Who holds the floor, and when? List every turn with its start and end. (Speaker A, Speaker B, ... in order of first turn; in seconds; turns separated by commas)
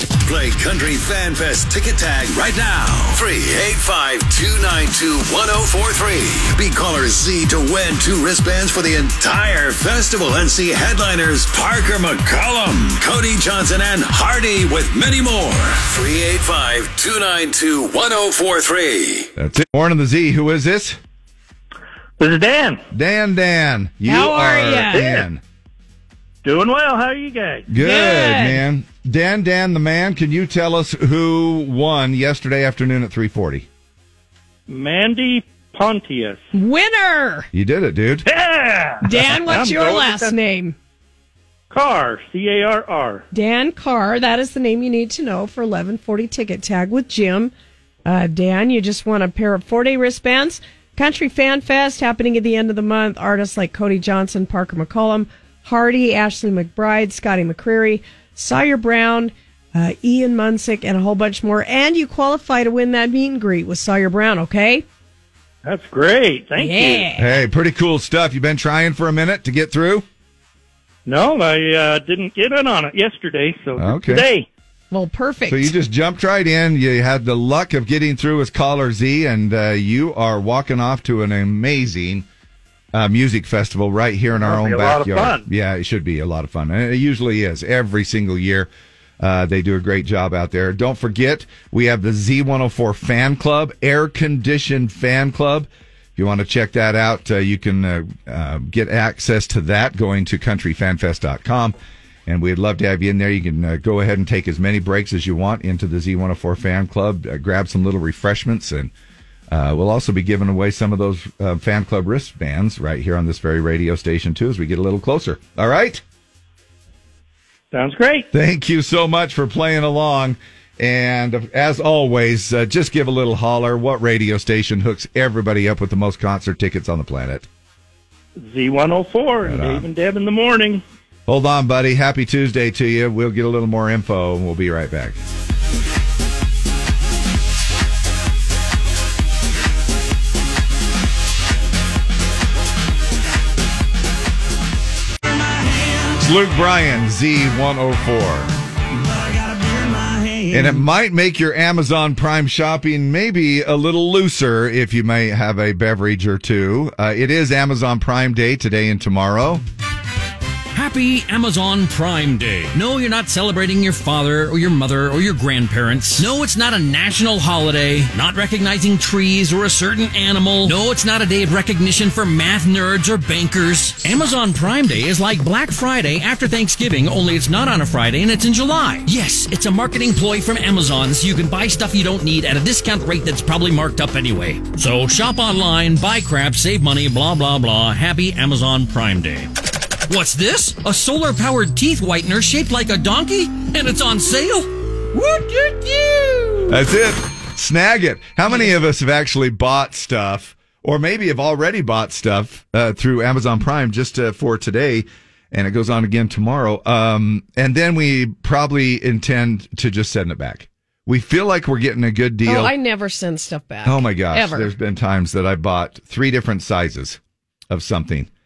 Speaker A: 0.2-19.3, Speaker B: 19.4-21.0, Speaker C: 22.2-22.8, Speaker B: 22.9-25.4, Speaker D: 24.1-25.2, Speaker C: 26.4-27.7, Speaker B: 27.7-33.7, Speaker D: 27.8-28.6, Speaker C: 34.7-36.4, Speaker D: 36.5-37.5, Speaker B: 37.5-38.3, Speaker C: 38.3-40.4, Speaker D: 39.0-40.8, Speaker C: 41.7-43.2, Speaker D: 43.3-47.5, Speaker D: 48.1-64.8, Speaker C: 65.7-67.1, Speaker D: 66.6-67.4, Speaker B: 67.2-70.1, Speaker C: 71.1-74.5, Speaker B: 73.8-74.3, Speaker D: 74.9-75.7, Speaker B: 75.5-82.2, Speaker B: 82.9-88.7, Speaker C: 84.4-85.5, Speaker B: 89.2-101.8, Speaker B: 102.3-108.9, Speaker B: 109.5-116.0, Speaker C: 117.7-118.3, Speaker B: 118.3-127.5, Speaker C: 128.4-130.8, Speaker B: 129.4-129.9, Speaker B: 131.3-135.2, Speaker B: 146.2-148.5, Speaker B: 150.5-159.6, Speaker E: 160.7-189.5, Speaker E: 190.1-196.5, Speaker B: 196.7-212.7, Speaker D: 212.4-214.7, Speaker B: 213.8-217.2, Speaker B: 217.7-218.3